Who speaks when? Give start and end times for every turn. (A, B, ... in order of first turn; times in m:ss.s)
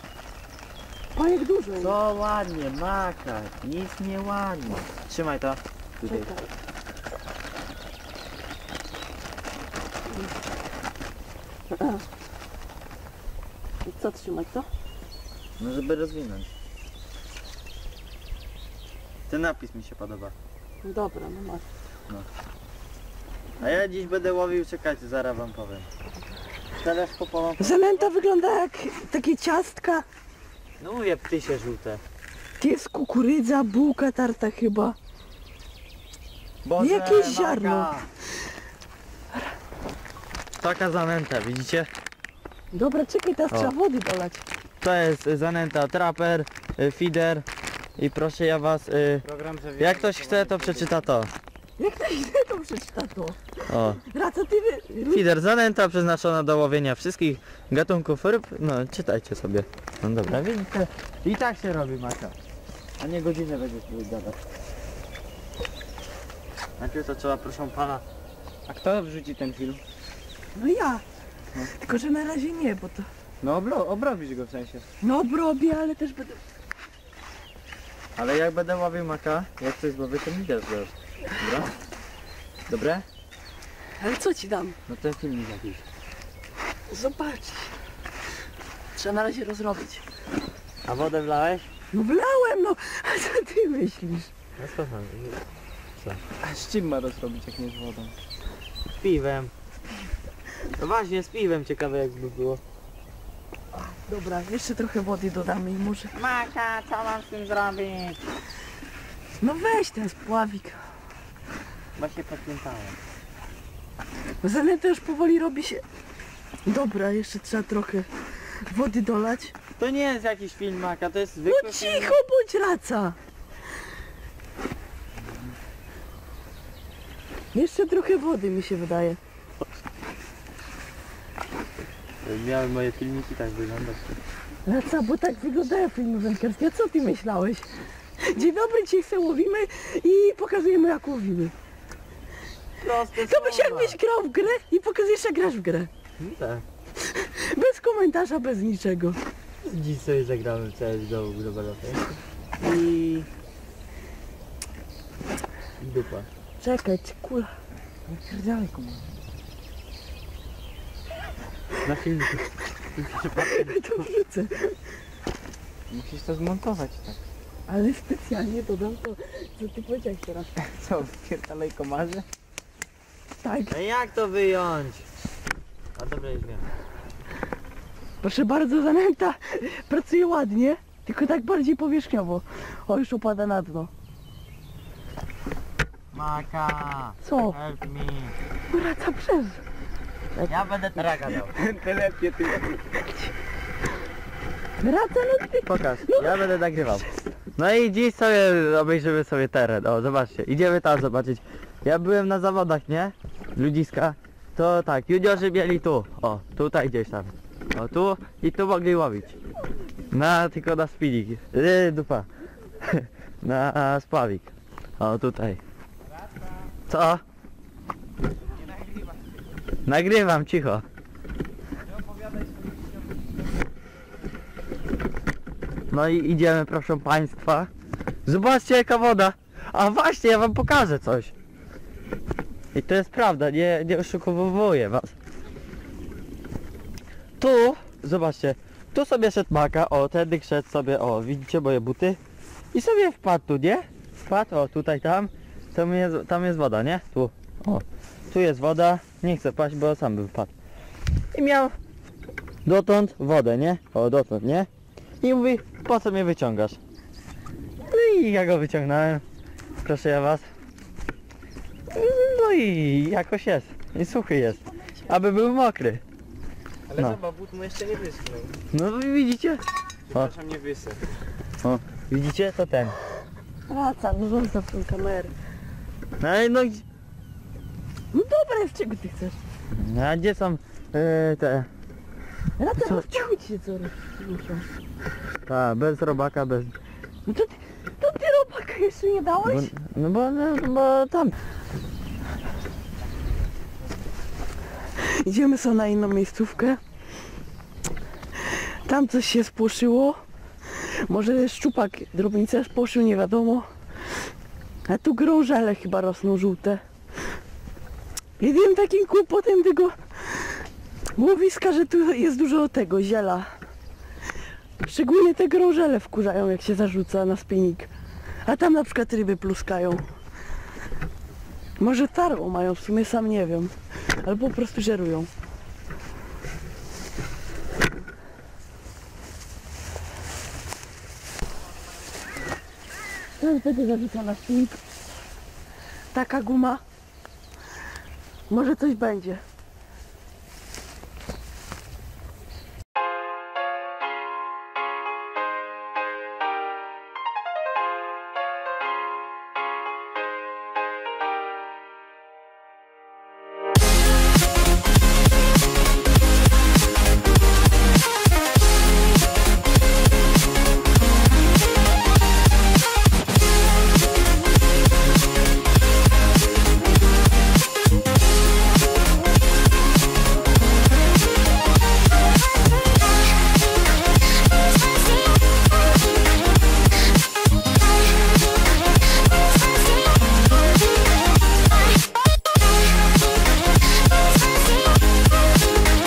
0:01.1-0:02.0 A
0:01.8-0:06.3 B
0:06.0-0:06.5 A
0:11.7-0:12.0 A
0:13.8-0:14.7 A
0:15.6-0:16.5 B
0:19.3-0:20.3 B
0:20.8-0:21.6 A
0:23.6-0:25.9 B
0:26.7-0:28.1 B
0:27.6-0:30.0 A
0:30.8-0:32.0 B
0:32.6-0:35.0 A
0:36.6-0:38.1 B
0:36.8-0:37.9 A
0:40.6-0:41.9 B
0:42.7-0:44.4 A
0:44.8-0:47.4 B
0:48.0-0:49.2 B
0:49.2-0:51.0 C
0:49.8-0:51.3 B
0:51.8-0:55.2 A
0:53.7-0:54.0 B
0:55.1-1:02.3 B
1:03.0-1:04.4 B
1:06.8-1:08.0 B
1:08.7-1:09.8 C
1:10.5-1:11.0 A
1:11.7-1:13.1 A
1:13.4-1:14.6 B
1:13.4-1:14.8 C
1:15.0-1:16.4 A
1:18.2-1:21.7 B
1:22.7-1:23.0 B
1:24.0-1:24.8 A
1:24.9-1:25.8 B
1:26.9-1:27.7 A
1:28.9-1:30.0 A
1:30.8-1:31.7 B
1:31.9-1:34.3 A
1:34.6-1:35.4 B
1:36.4-1:38.2 C
1:39.0-1:39.5 B
1:40.6-1:42.6 B
1:43.8-1:46.1 A
1:46.1-1:48.2 B
1:49.4-1:50.8 A
1:52.0-1:53.0 B
1:54.4-1:55.8 A
1:56.6-1:59.5 A
1:59.8-2:02.2 B
2:01.4-2:03.2 A
2:07.5-2:09.2 A
2:12.2-2:14.2 B
2:14.6-2:17.7 A
2:18.2-2:21.5 A
2:22.8-2:24.0 B
2:23.1-2:25.9 A
2:26.2-2:26.6 B
2:27.0-2:29.2 A
2:29.6-2:33.3 B
2:35.8-2:36.3 B
2:36.6-2:37.5 A
2:38.1-2:39.1 C
2:41.8-2:44.1 B
2:43.4-2:44.8 A
2:45.9-2:47.2 C
2:47.7-2:50.5 A
2:50.6-2:52.2 C
2:53.4-2:53.8 A
2:53.7-2:55.1 B
2:56.0-2:56.7 B
2:58.2-3:03.9 A
3:06.1-3:08.4 B
3:07.2-3:07.6 A
3:08.7-3:09.6 A
3:10.4-3:11.5 B
3:11.3-3:12.8 C
3:13.0-3:13.2 A
3:14.8-3:17.3 A
3:15.6-3:29.4 B
3:30.1-3:32.3 B
3:32.8-3:35.6 B
3:36.9-3:37.2 B
3:39.8-3:40.8 B
3:45.9-3:47.7 B
3:48.2-3:51.3 B
3:52.7-3:55.1 B
3:57.4-4:02.2 B
4:02.7-4:10.5 B
4:11.3-4:11.7 B
4:12.6-4:14.7 B
4:15.2-4:16.8 B
4:17.8-4:19.2 B
4:19.8-4:20.4 B
4:21.9-4:26.0 B
4:26.9-4:28.5 C
4:28.7-4:29.6 B
4:30.1-4:31.0 C
4:31.6-4:33.0 B
4:33.7-4:35.3 A
4:36.2-4:36.8 B
4:38.1-4:39.4 A
4:39.7-4:41.7 B
4:42.6-4:44.7 A
4:42.8-4:43.1 B
4:45.4-4:46.7 B
4:47.2-4:49.7 A
4:49.4-4:51.4 B
4:55.0-4:56.8 A
4:58.4-5:00.2 A
5:00.7-5:03.6 A
5:04.9-5:06.8 A
5:08.4-5:10.6 A
5:11.2-5:13.5 A
5:14.8-5:17.9 A
5:18.4-5:20.0 A
5:21.8-5:25.3 A
5:33.4-5:34.8 A
5:36.1-5:36.8 A
5:38.5-5:39.4 A